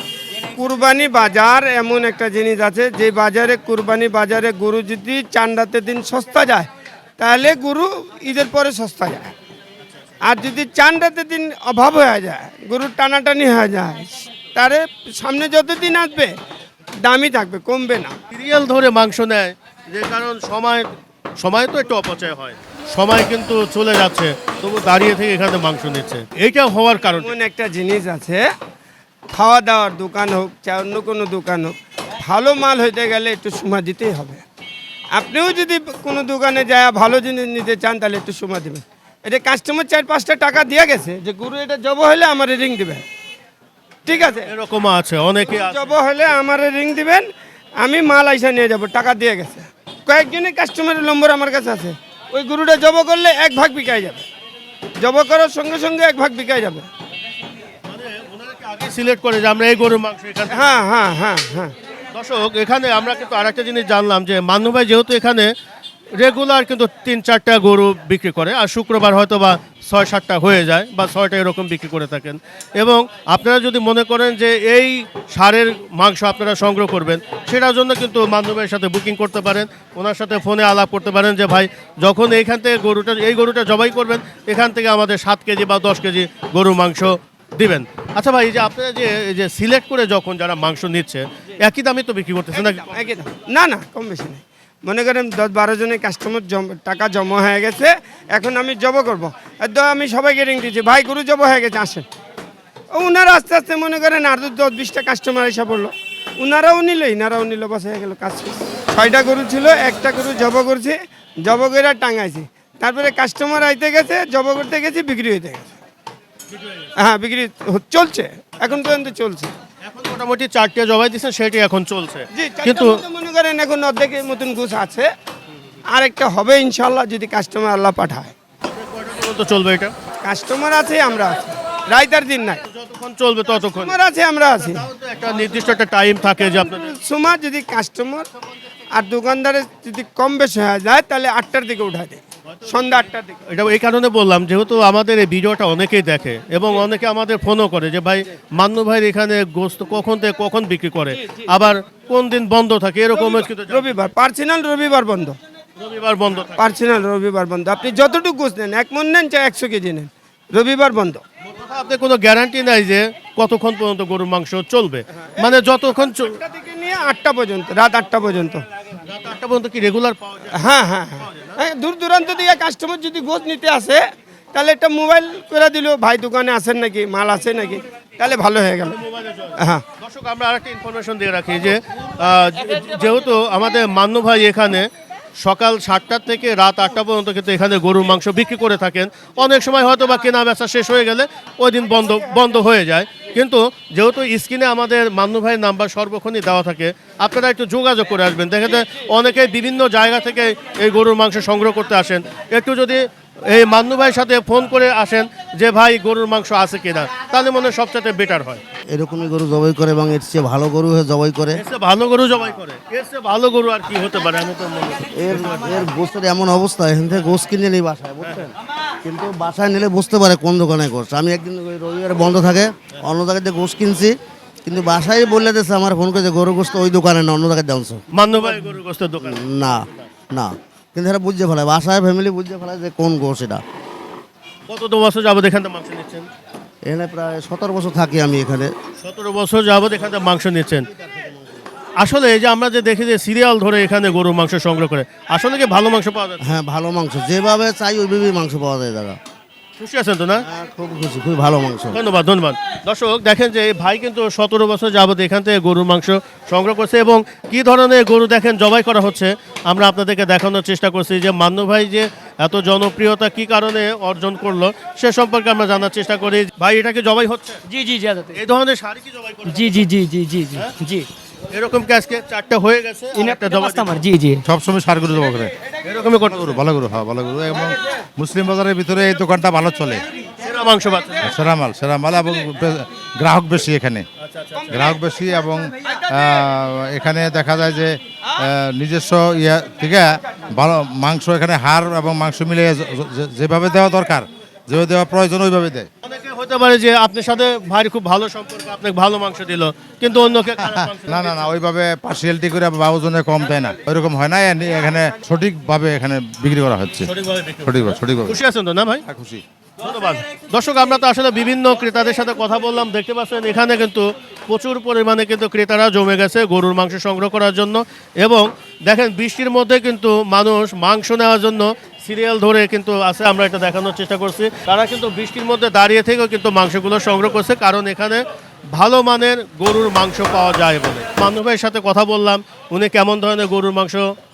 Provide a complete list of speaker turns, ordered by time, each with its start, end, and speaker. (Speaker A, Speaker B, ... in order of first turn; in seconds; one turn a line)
Speaker A: 0.6-9.3
Speaker A: 10.3-16.4
Speaker A: 17.0-18.1
Speaker B: 18.3-27.3
Speaker A: 27.2-28.4
Speaker A: 29.3-34.4
Speaker A: 35.1-43.0
Speaker A: 44.1-44.5
Speaker B: 44.1-46.0
Speaker A: 45.5-47.3
Speaker A: 47.8-54.3
Speaker A: 55.0-56.9
Speaker B: 57.9-60.7
Speaker A: 60.5-61.7
Speaker B: 62.1-65.5
Speaker B: 66.2-93.0
Speaker A: 92.5-102.1
Speaker A: 102.9-115.8
Speaker B: 116.5-116.9
Speaker A: 117.0-119.5
Speaker B: 119.8-123.0
Speaker A: 122.3-125.1
Speaker A: 125.9-128.3
Speaker B: 128.7-129.9
Speaker A: 130.2-132.6
Speaker B: 132.7-134.0
Speaker A: 133.8-134.9
Speaker B: 134.7-136.9
Speaker A: 136.5-138.3
Speaker A: 138.9-143.4
Speaker B: 142.5-154.1
Speaker A: 153.2-155.4
Speaker B: 155.8-156.7
Speaker A: 156.6-161.2
Speaker B: 161.4-166.3
Speaker A: 165.2-168.7
Speaker B: 169.1-171.6
Speaker A: 170.6-179.0
Speaker B: 178.9-208.6
Speaker A: 179.6-179.8
Speaker C: 208.9-211.6
Speaker B: 211.6-215.9
Speaker C: 215.2-218.5
Speaker C: 219.0-224.1
Speaker C: 224.7-228.0
Speaker B: 228.1-230.1
Speaker C: 229.2-233.6
Speaker B: 234.7-236.3
Speaker C: 236.9-238.7
Speaker B: 239.0-240.9
Speaker B: 242.0-246.5
Speaker C: 246.4-249.2
Speaker B: 249.8-250.4
Speaker C: 250.5-252.0
Speaker B: 251.9-267.6
Speaker D: 267.7-268.4
Speaker B: 268.3-269.9
Speaker D: 269.5-271.1
Speaker B: 271.5-273.9
Speaker D: 273.2-274.4
Speaker E: 274.4-275.5
Speaker B: 275.8-276.6
Speaker E: 276.3-280.0
Speaker B: 280.4-281.3
Speaker E: 281.2-284.1
Speaker B: 284.2-284.9
Speaker E: 284.7-295.9
Speaker B: 296.0-301.4
Speaker E: 300.6-307.1
Speaker B: 307.1-309.0
Speaker E: 307.6-308.4
Speaker E: 309.1-309.4
Speaker B: 309.8-334.1